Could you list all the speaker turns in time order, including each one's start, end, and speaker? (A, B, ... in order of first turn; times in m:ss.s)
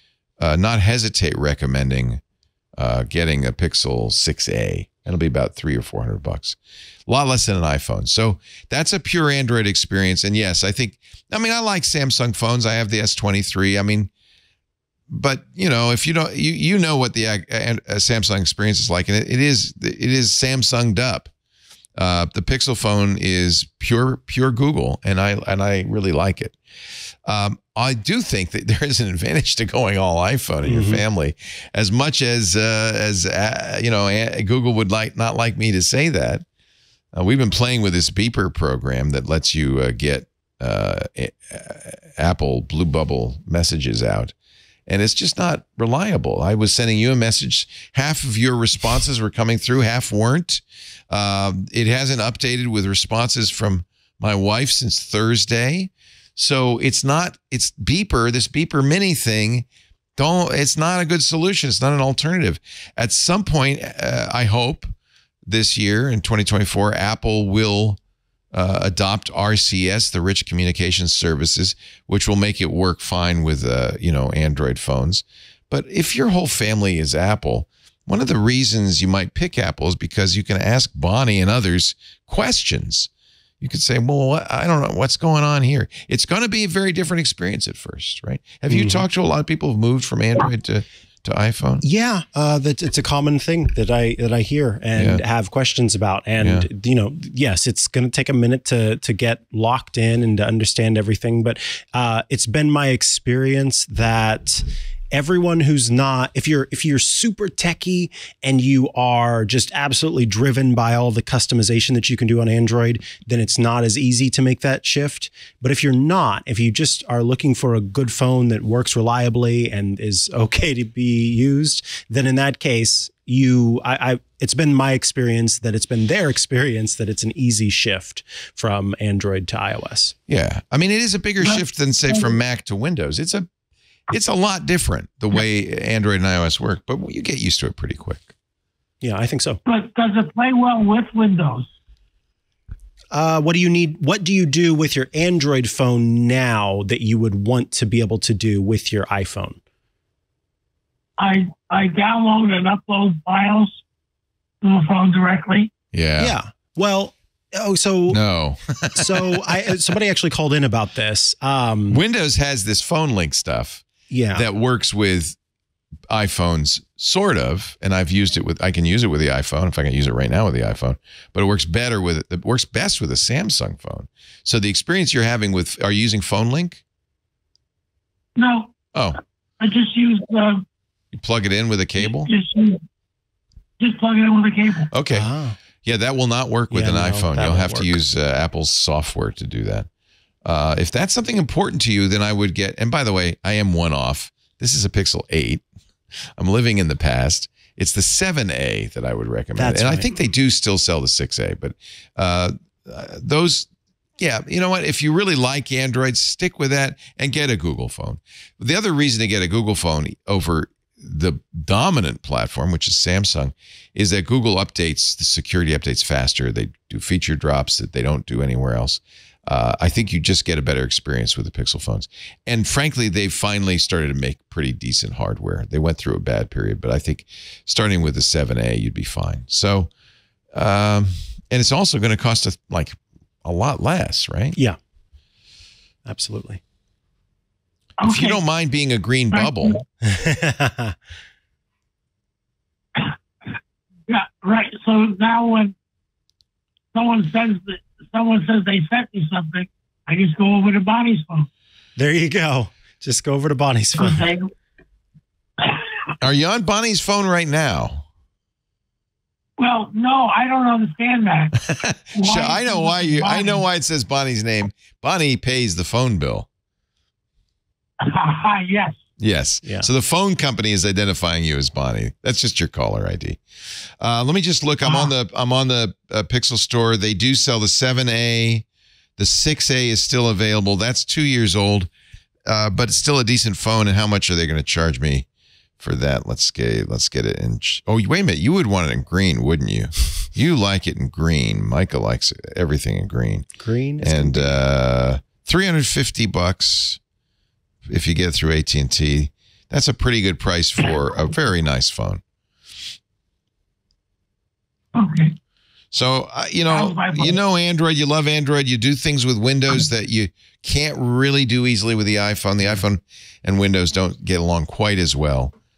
0:00.4-0:02.2 A
0:02.8-0:06.6 A
0:07.1-0:14.1 A
0:15.1-0:21.3 A
0:22.0-0:26.6 A
0:27.3-0:36.4 A
0:30.6-0:31.0 B
0:37.1-0:44.3 A
0:44.9-1:04.9 A
1:05.5-1:08.0 A
1:08.5-1:23.1 A
1:23.6-1:31.8 A
1:28.7-1:29.0 B
1:31.8-2:10.2 B
1:35.0-1:35.2 A
1:36.4-1:36.7 A
2:10.3-2:13.5 A
2:11.4-2:12.4 C
2:14.1-2:18.3 A
2:19.0-2:19.6 B
2:19.7-2:21.7 C
2:23.1-2:29.6 B
2:31.2-2:33.8 C
2:34.6-2:35.7 C
2:35.9-2:36.4 A
2:36.2-2:38.2 B
2:38.1-2:39.4 A
2:38.9-2:42.0 B
2:41.9-2:45.4 A
2:44.1-2:44.4 B
2:46.1-2:56.8 A
2:58.4-2:58.7 C
2:59.6-3:00.6 C
3:01.2-3:02.3 A
3:02.0-3:02.8 C
3:03.8-3:04.9 C
3:04.9-3:05.3 A
3:05.1-3:05.6 B
3:05.8-3:09.9 A
3:06.7-3:08.0 B
3:10.4-3:15.6 A
3:16.4-3:49.9 A
3:19.6-3:20.2 B
3:50.5-3:54.6 A
3:56.1-3:56.6 B
3:58.0-3:58.4 C
3:58.0-3:59.8 A
3:59.3-3:59.8 C
4:00.0-4:01.0 B
4:04.1-4:05.7 C
4:06.9-4:11.5 C
4:12.0-4:14.3 B
4:14.0-4:14.5 C
4:16.2-4:18.1 A
4:19.6-4:21.6 C
4:21.7-4:26.5 A
4:22.2-4:23.7 C
4:28.0-4:29.0 C
4:29.2-4:33.4 A
4:29.6-4:29.9 B
4:34.0-4:38.6 A
4:39.2-4:41.9 A
4:42.5-4:45.3 A
4:45.8-4:53.5 A
4:53.6-4:54.6 B
4:54.0-4:57.0 A
4:57.9-5:02.2 A
5:05.0-5:05.4 C
5:05.9-5:15.5 A
5:06.7-5:07.4 C